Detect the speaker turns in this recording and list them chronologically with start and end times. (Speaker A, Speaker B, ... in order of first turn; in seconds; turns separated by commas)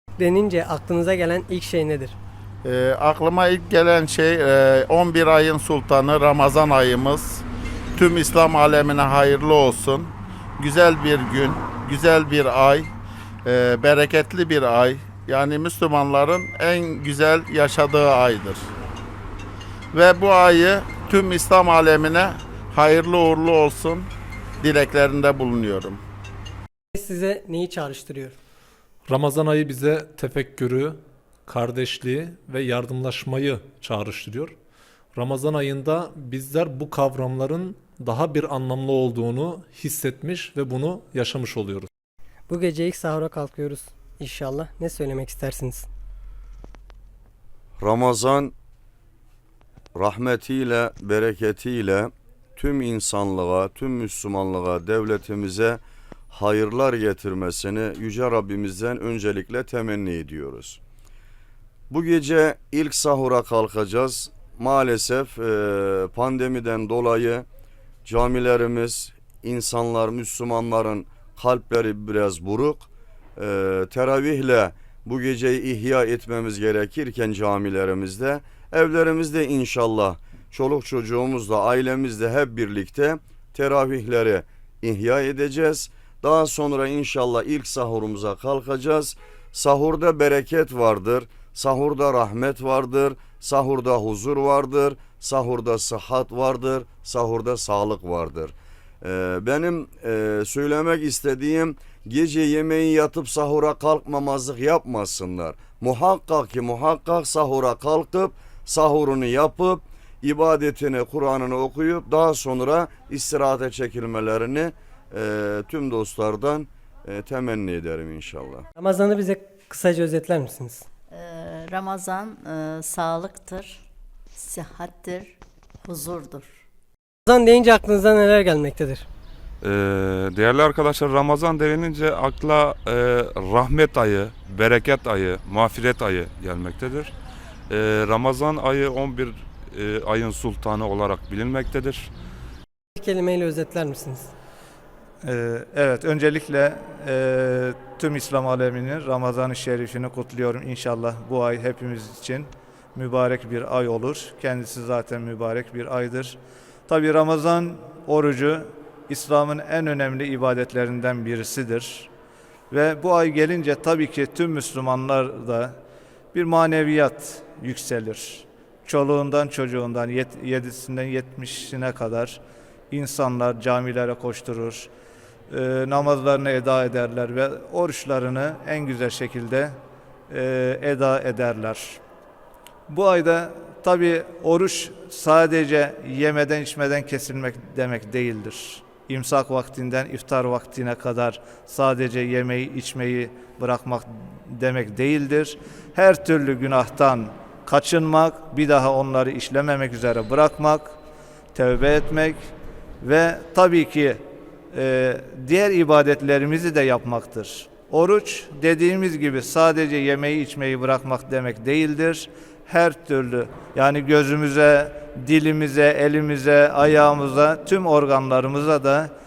Speaker A: 0.2-2.2, Speaker B: 2.6-7.4, Speaker B: 8.0-12.9, Speaker B: 13.5-18.6, Speaker B: 19.9-24.1, Speaker B: 24.6-26.0, Speaker A: 26.9-28.4, Speaker C: 29.1-34.6, Speaker C: 35.1-41.9, Speaker A: 42.5-45.9, Speaker D: 47.8-48.5, Speaker D: 50.0-55.8, Speaker D: 56.3-60.8, Speaker D: 61.9-67.5, Speaker D: 68.0-118.7, Speaker A: 118.8-120.8, Speaker E: 121.1-123.8, Speaker E: 124.4-125.3, Speaker E: 125.8-126.6, Speaker A: 127.3-129.1, Speaker F: 129.6-137.1, Speaker F: 137.7-142.1, Speaker A: 143.0-144.3, Speaker G: 145.2-162.1, Speaker G: 162.7-165.8, Speaker G: 166.3-174.9, Speaker G: 175.5-179.8, Speaker G: 180.3-182.0, Speaker G: 182.9-201.0, Speaker G: 201.5-219.1